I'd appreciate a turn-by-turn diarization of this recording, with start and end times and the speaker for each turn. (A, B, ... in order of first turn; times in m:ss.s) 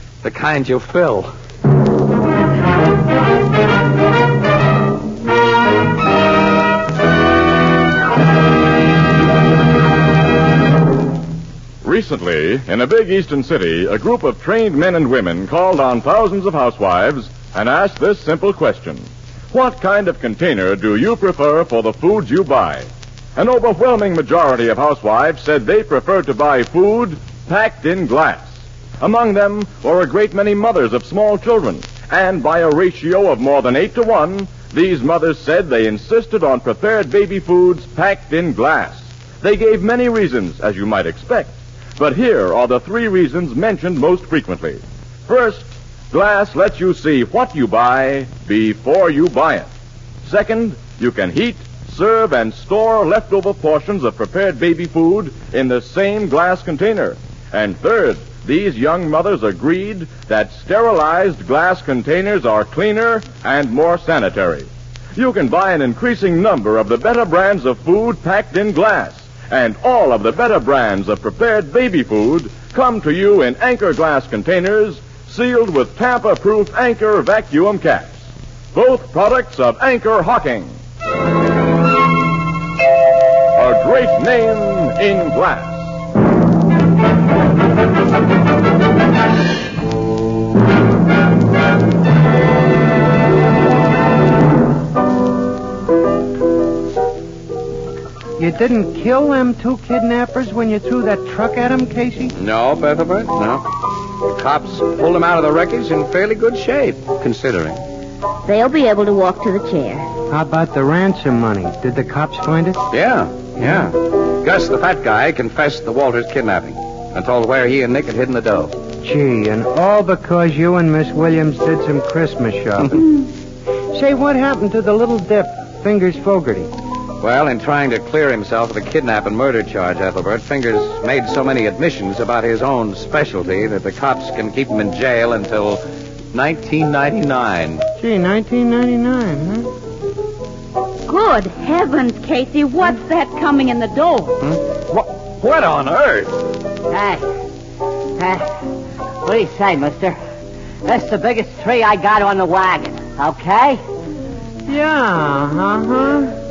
0:00.2-0:01.3 A
0:11.8-0:49.7 B
0:50.2-1:20.8 B
1:23.6-1:25.9 B
1:38.4-1:42.3 C
1:42.4-1:43.6 A
1:44.2-1:47.8 A
1:48.4-1:50.1 D
1:50.3-1:52.8 C
1:52.9-1:58.7 A
1:59.0-2:03.2 C
2:03.9-2:06.7 C
2:07.2-2:17.8 A
2:18.0-2:19.7 C
2:21.1-2:24.4 D
2:24.4-2:26.3 A
2:26.9-2:27.2 E
2:28.2-2:28.5 E
2:29.2-2:30.2 E
2:30.8-2:33.8 E
2:34.7-2:36.4 C